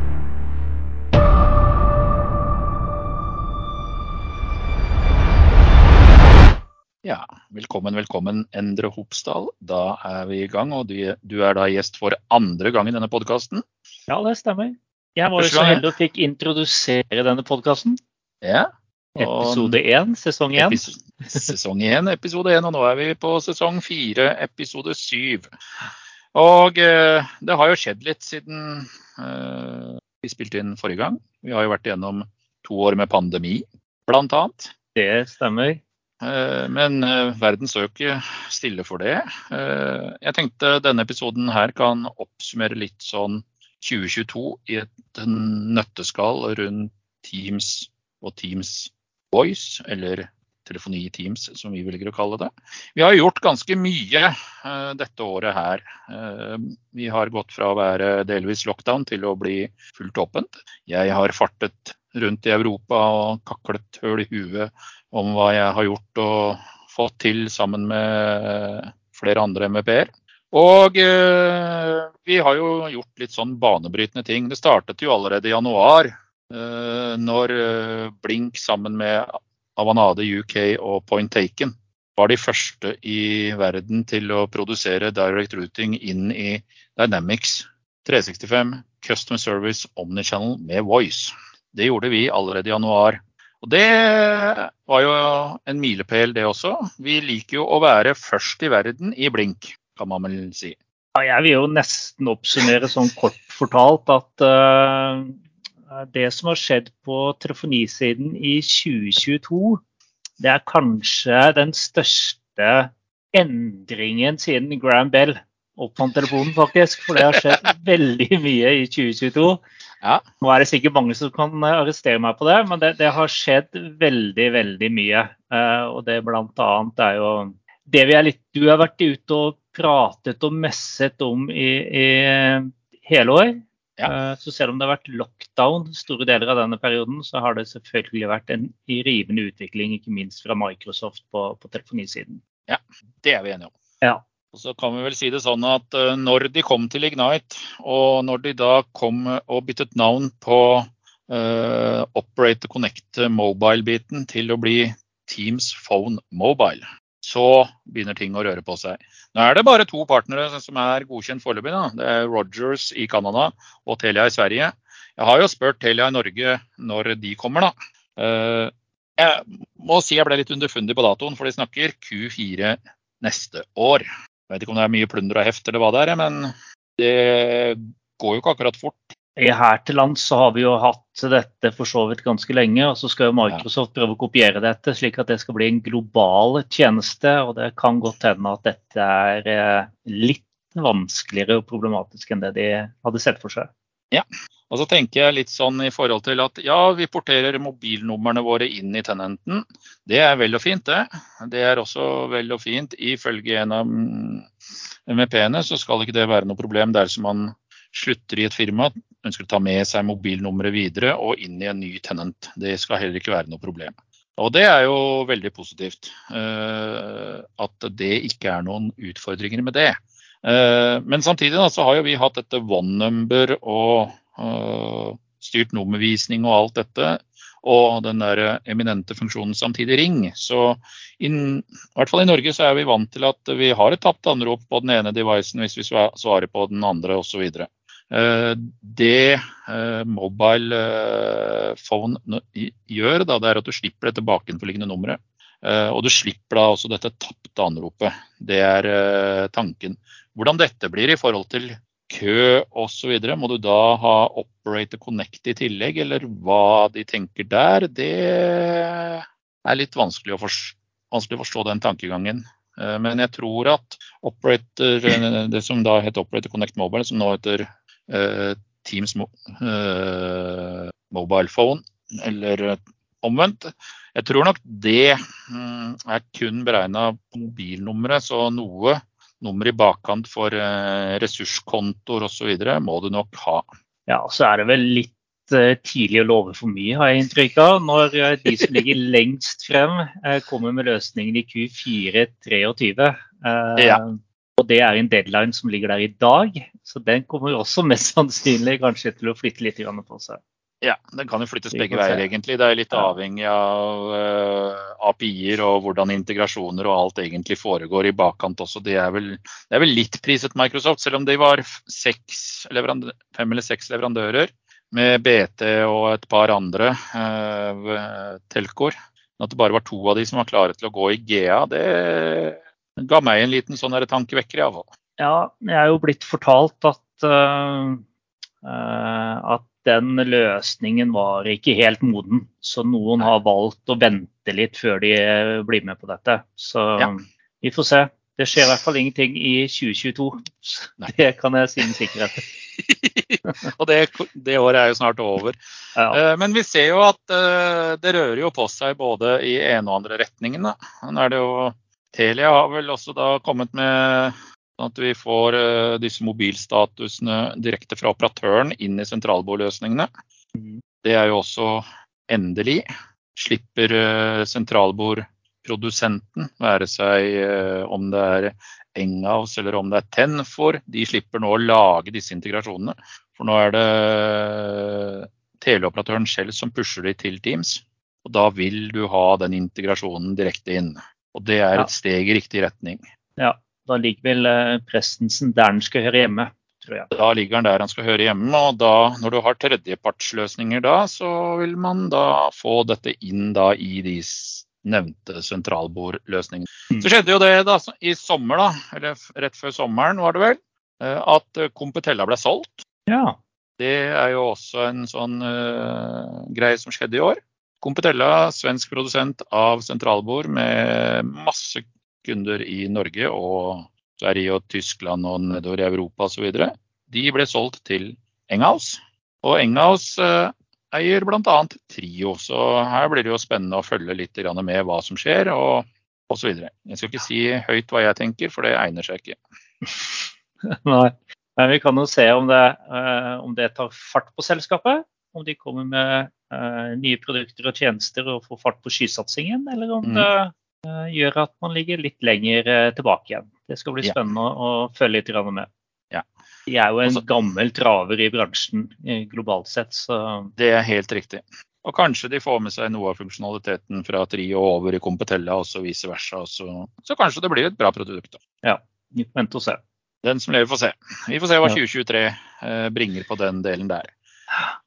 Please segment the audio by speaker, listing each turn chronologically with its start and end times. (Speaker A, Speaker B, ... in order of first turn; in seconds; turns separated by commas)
Speaker A: 7.0-13.6, Speaker B: 14.1-18.0, Speaker A: 15.4-15.8, Speaker A: 18.4-19.8, Speaker B: 19.2-20.8, Speaker A: 20.6-25.5, Speaker A: 26.3-34.7, Speaker B: 35.0-35.8, Speaker A: 36.2-100.8, Speaker B: 101.2-105.4, Speaker B: 105.9-109.8, Speaker B: 110.4-119.6, Speaker B: 120.4-142.4, Speaker A: 142.7-143.7, Speaker A: 144.5-179.0, Speaker B: 179.4-193.7, Speaker A: 194.1-204.5, Speaker A: 205.1-283.7, Speaker B: 284.1-300.4, Speaker A: 293.8-294.0, Speaker A: 300.8-324.9, Speaker B: 301.7-302.2, Speaker B: 325.2-328.0, Speaker B: 328.6-342.4, Speaker A: 342.5-345.6, Speaker A: 346.1-360.1, Speaker B: 360.6-360.8, Speaker A: 361.0-383.0, Speaker B: 383.4-387.1, Speaker A: 387.1-402.9, Speaker B: 403.1-403.4, Speaker A: 403.8-429.4, Speaker B: 429.8-445.7, Speaker A: 440.0-440.3, Speaker B: 446.7-450.5, Speaker A: 450.6-458.4, Speaker B: 458.6-459.8, Speaker A: 460.2-464.1